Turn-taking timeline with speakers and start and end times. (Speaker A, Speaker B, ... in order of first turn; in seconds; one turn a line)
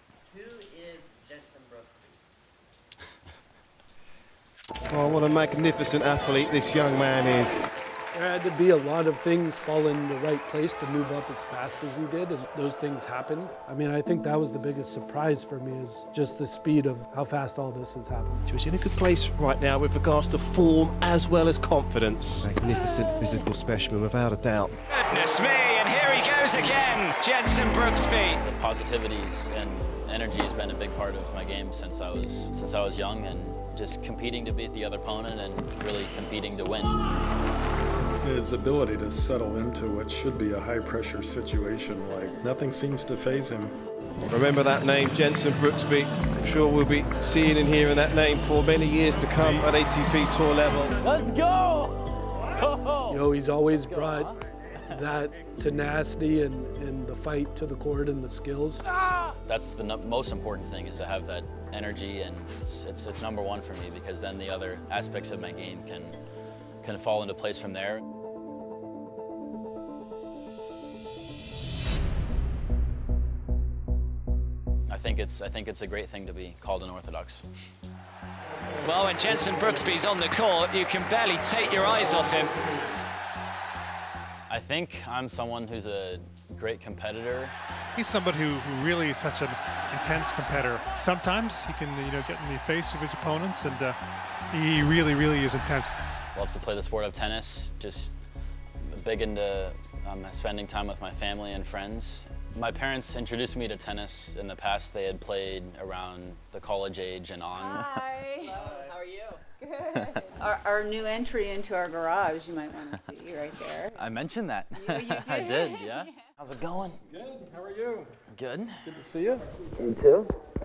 Speaker A: 0.3-2.2
Speaker B: 4.9-7.7
Speaker C: 8.1-18.4
Speaker B: 18.5-24.7
Speaker D: 24.9-28.4
Speaker E: 28.4-37.0
Speaker F: 38.2-43.7
Speaker B: 44.3-50.9
Speaker E: 51.0-53.2
Speaker C: 53.1-54.3
Speaker E: 53.9-54.3
Speaker C: 54.9-58.8
Speaker E: 59.4-66.2
Speaker E: 66.8-68.0
Speaker E: 74.9-77.5
Speaker D: 78.8-82.8
Speaker F: 79.3-79.8
Speaker E: 84.5-87.5
Speaker G: 88.0-94.0
Speaker G: 94.5-95.9
Speaker E: 96.3-98.2
Speaker E: 98.9-108.0
Speaker H: 107.5-108.7
Speaker A: 108.5-109.4
Speaker H: 109.6-114.2
Speaker E: 109.9-110.2
Speaker E: 114.0-117.0
Speaker H: 114.7-116.2
Speaker F: 117.1-118.1
Speaker E: 118.3-118.9
Speaker F: 118.8-119.5